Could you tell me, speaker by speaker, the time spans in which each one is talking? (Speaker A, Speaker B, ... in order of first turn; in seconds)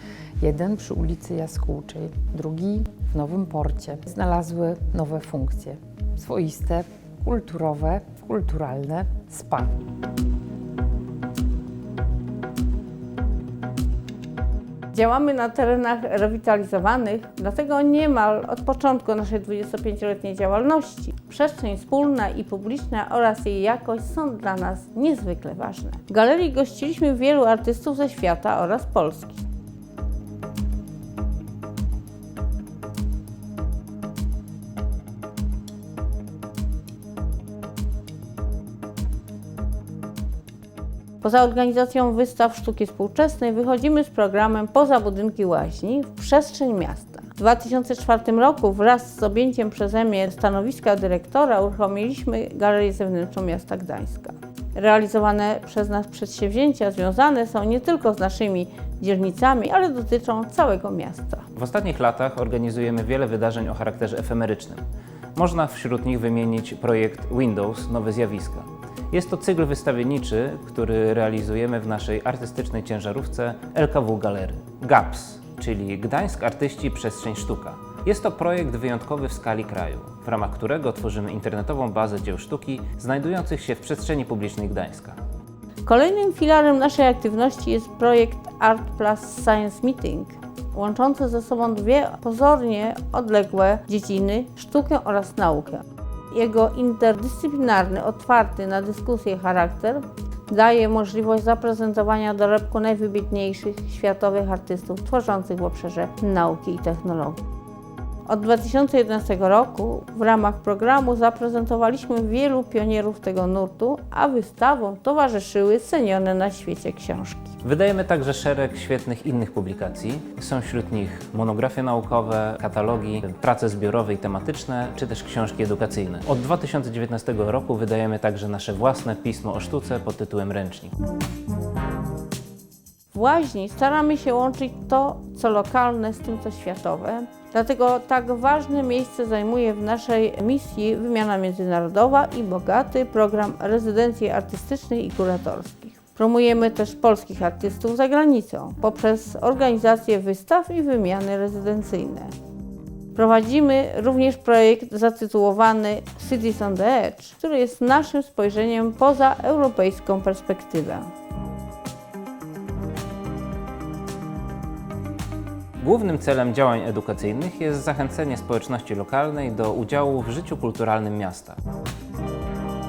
Speaker A: 0.4-9.7
Speaker B: 14.9-29.4, 41.2-61.4, 85.8-107.4, 108.3-117.6, 133.1-152.3, 153.2-161.1
Speaker C: 61.6-64.8, 65.4-85.2, 117.6-130.9, 165.8-171.6